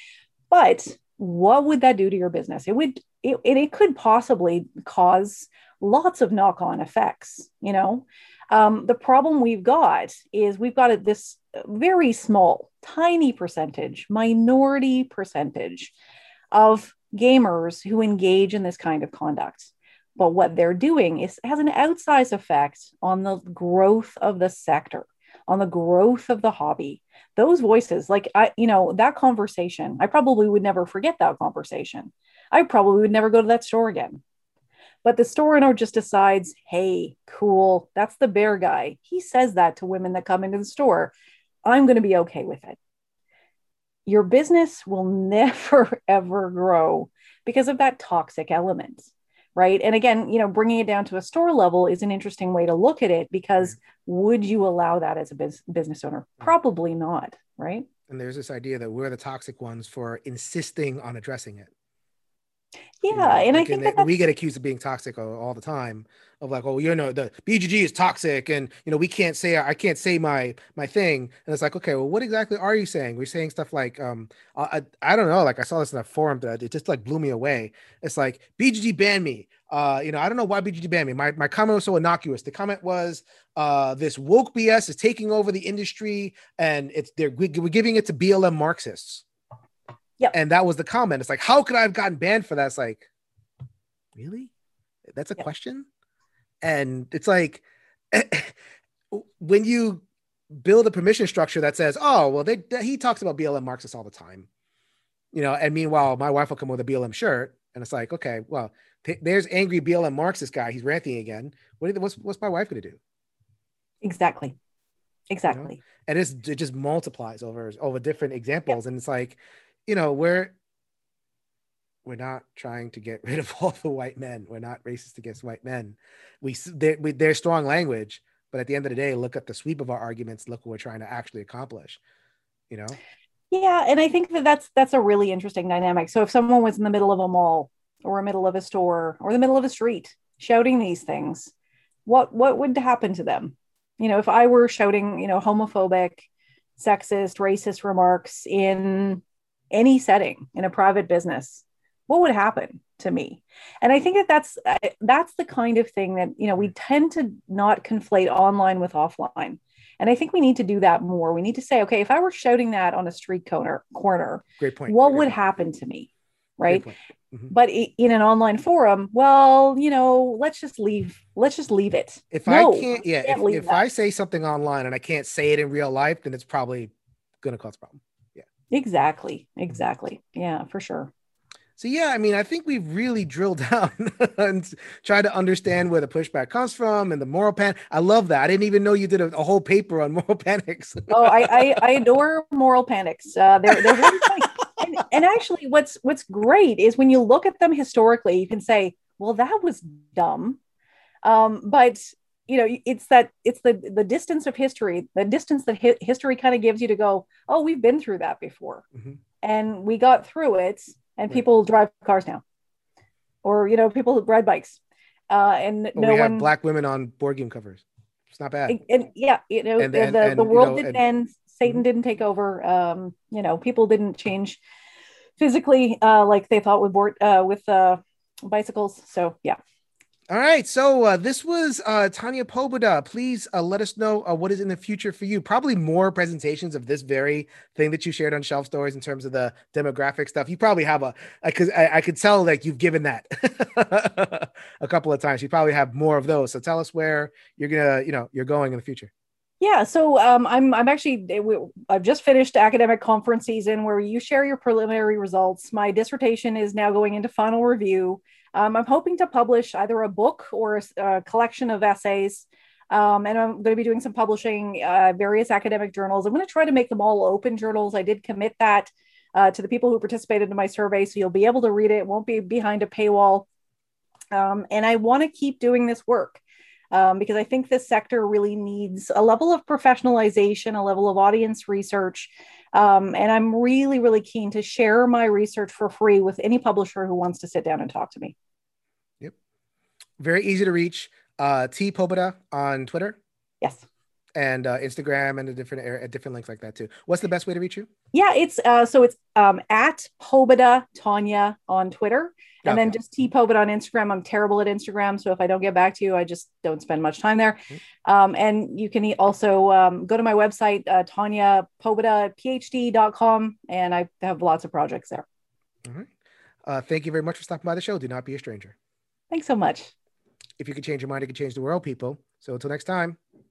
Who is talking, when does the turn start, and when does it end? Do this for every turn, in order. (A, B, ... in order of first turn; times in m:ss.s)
0:00.5-0:15.9 A
0:16.5-0:34.2 A
0:35.0-0:41.1 A
0:41.7-0:42.8 A
0:44.1-0:57.9 A
0:58.1-1:01.7 B
1:03.0-1:04.1 A
1:03.1-1:29.2 B
1:30.3-1:33.1 B
1:34.2-1:34.5 B
1:35.1-1:35.9 B
1:36.6-1:38.5 B
1:39.1-1:44.5 B
1:45.3-1:53.0 B
1:54.0-1:54.6 A
1:55.3-1:55.8 A
1:55.5-2:00.5 B
2:02.0-2:12.0 B
2:12.7-2:13.0 B
2:13.5-2:21.5 A
2:22.1-2:46.9 A
2:44.6-2:45.3 B
2:46.7-2:47.5 B
2:47.5-2:53.8 A
2:52.3-2:58.4 B
2:58.7-3:01.1 A
3:01.8-3:11.8 B
3:11.1-3:20.6 A
3:13.7-3:14.3 B
3:21.2-3:28.8 A
3:29.4-3:32.4 A
3:33.4-3:36.5 A
3:36.0-3:38.8 B
3:38.7-3:44.6 A
3:39.8-3:41.0 B
3:45.4-3:49.6 A
3:50.3-4:09.1 B
4:09.6-4:33.5 A
4:34.3-4:48.4 A
4:50.2-4:53.2 B
4:53.6-4:53.9 A
4:54.4-4:57.9 B
4:58.1-5:15.2 A
5:02.6-5:03.0 B
5:15.8-5:16.1 B
5:16.7-5:18.8 B
5:19.3-5:19.9 A
5:20.6-5:23.2 B